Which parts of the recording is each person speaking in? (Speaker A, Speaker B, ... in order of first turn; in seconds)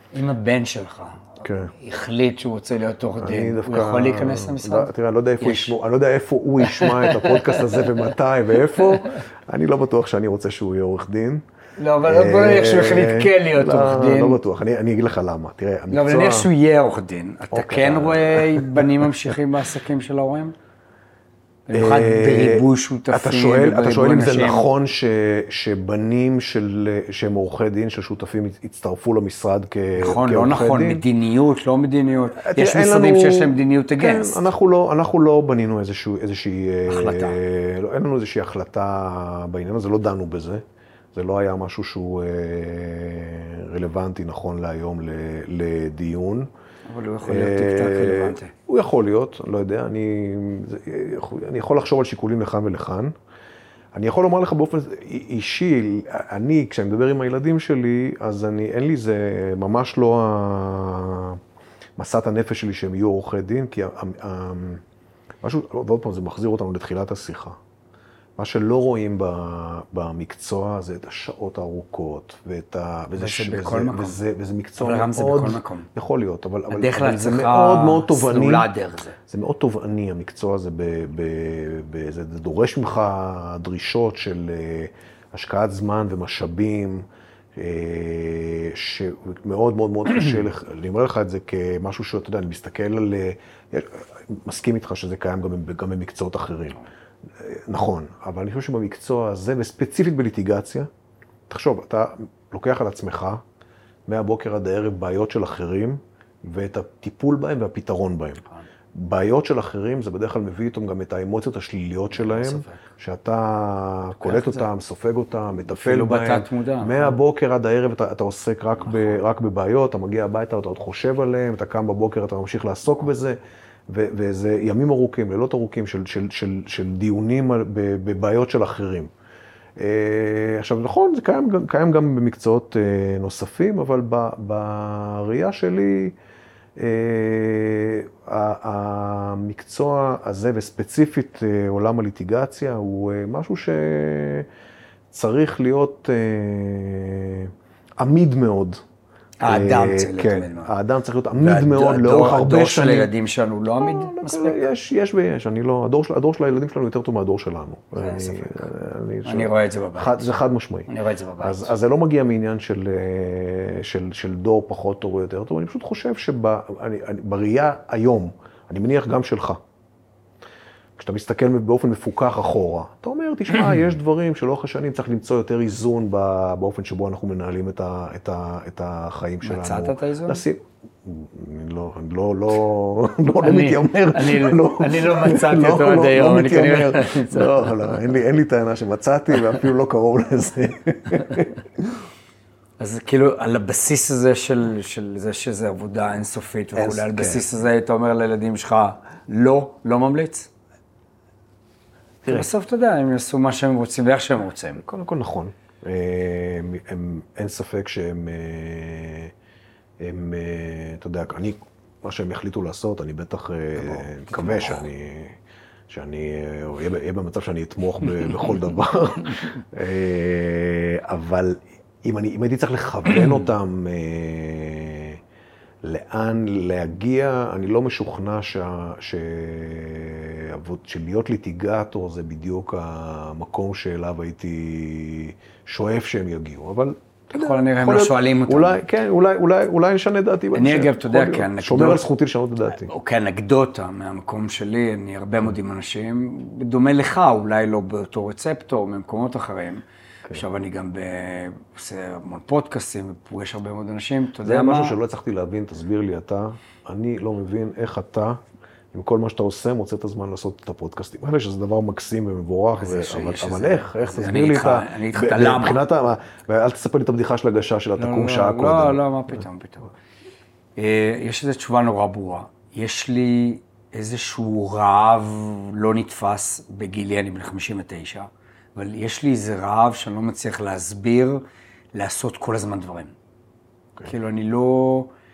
Speaker A: 0.1-4.9, 5.4-5.7, 6.6-7.9, 11.8-14.4, 15.9-20.5, 21.7-24.7, 30.0-34.5, 36.9-37.4, 46.9-48.5, 73.2-74.2, 74.8-75.9, 76.7-79.2, 112.2-112.8, 114.2-114.7, 115.7-117.2, 149.4-150.7, 151.3-154.7, 158.0-158.7, 159.2-160.2, 160.9-161.7, 179.4-180.4, 183.4-187.7, 192.8-200.5, 202.3-204.8, 213.8-214.8, 237.3-238.8, 240.5-242.1, 242.8-255.0, 262.8-265.8, 268.0-269.9, 270.8-281.4, 281.9-283.1, 284.0-285.1
Speaker B: 1.4-1.7, 3.2-11.4, 12.0-16.5, 17.5-19.4, 21.7-31.0, 32.4-46.5, 47.2-53.1, 53.9-61.4, 62.0-64.8, 65.4-67.6, 68.4-78.7, 79.3-87.0, 87.5-96.8, 97.3-100.9, 101.5-103.4, 104.1-108.4, 108.9-129.1, 129.8-136.1, 136.8-144.5, 145.1-148.8, 149.4-153.1, 153.8-160.9, 161.4-169.6, 171.0-191.9, 196.7-197.5, 204.8-209.3, 210.0-215.4, 215.9-225.2, 225.8-242.9, 254.4-258.4, 258.9-269.4